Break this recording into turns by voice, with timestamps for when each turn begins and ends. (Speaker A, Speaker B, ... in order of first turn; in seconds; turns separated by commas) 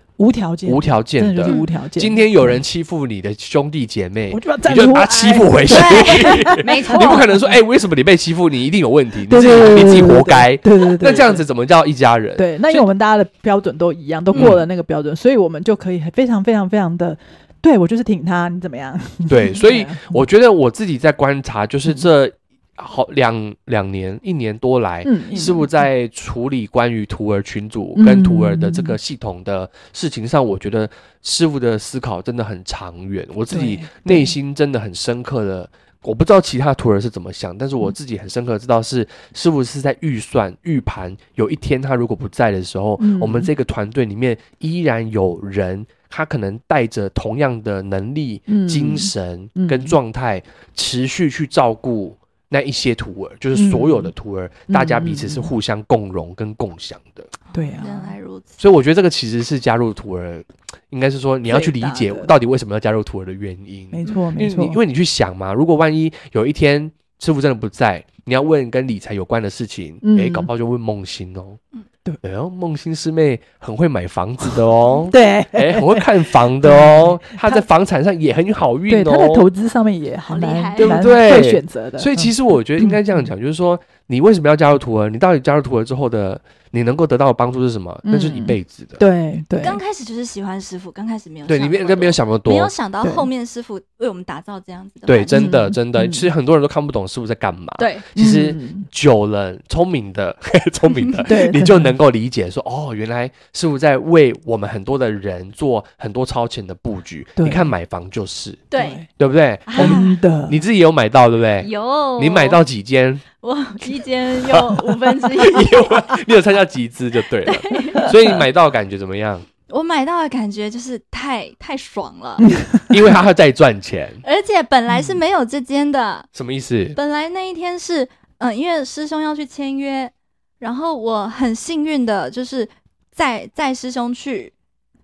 Speaker A: 0.2-2.6, Speaker B: 0.7-12.9, Speaker A: 4.3-7.2, Speaker C: 5.7-7.3, Speaker A: 9.3-11.4, Speaker A: 12.3-20.2, Speaker B: 14.3-14.6, Speaker B: 19.3-57.3, Speaker A: 25.0-25.7, Speaker A: 27.9-29.0, Speaker A: 33.5-34.3, Speaker A: 43.0-43.5, Speaker A: 48.5-50.0, Speaker A: 53.5-54.1, Speaker A: 54.7-55.5, Speaker A: 57.5-58.1, Speaker C: 57.8-58.6, Speaker B: 58.6-71.6, Speaker A: 61.5-62.3, Speaker A: 63.9-64.8, Speaker A: 70.0-70.5, Speaker B: 72.2-79.5, Speaker A: 75.1-77.6, Speaker A: 78.9-83.0, Speaker C: 80.3-81.2, Speaker B: 80.8-89.0, Speaker A: 88.0-89.8, Speaker C: 89.6-95.5, Speaker B: 91.5-92.7, Speaker A: 93.0-93.3, Speaker B: 95.1-113.2, Speaker A: 95.3-96.3, Speaker C: 97.8-98.0, Speaker A: 98.1-98.9, Speaker A: 101.2-101.9, Speaker A: 107.4-107.7, Speaker C: 108.7-109.0, Speaker A: 108.8-109.1, Speaker C: 109.7-110.2, Speaker A: 109.8-110.6, Speaker C: 111.6-112.6, Speaker C: 113.4-116.2, Speaker B: 114.5-114.8, Speaker B: 115.4-119.5, Speaker C: 117.4-118.1, Speaker C: 119.7-122.6, Speaker B: 122.9-124.2, Speaker C: 124.2-126.3, Speaker A: 124.9-125.2, Speaker B: 126.3-127.0, Speaker C: 126.9-134.5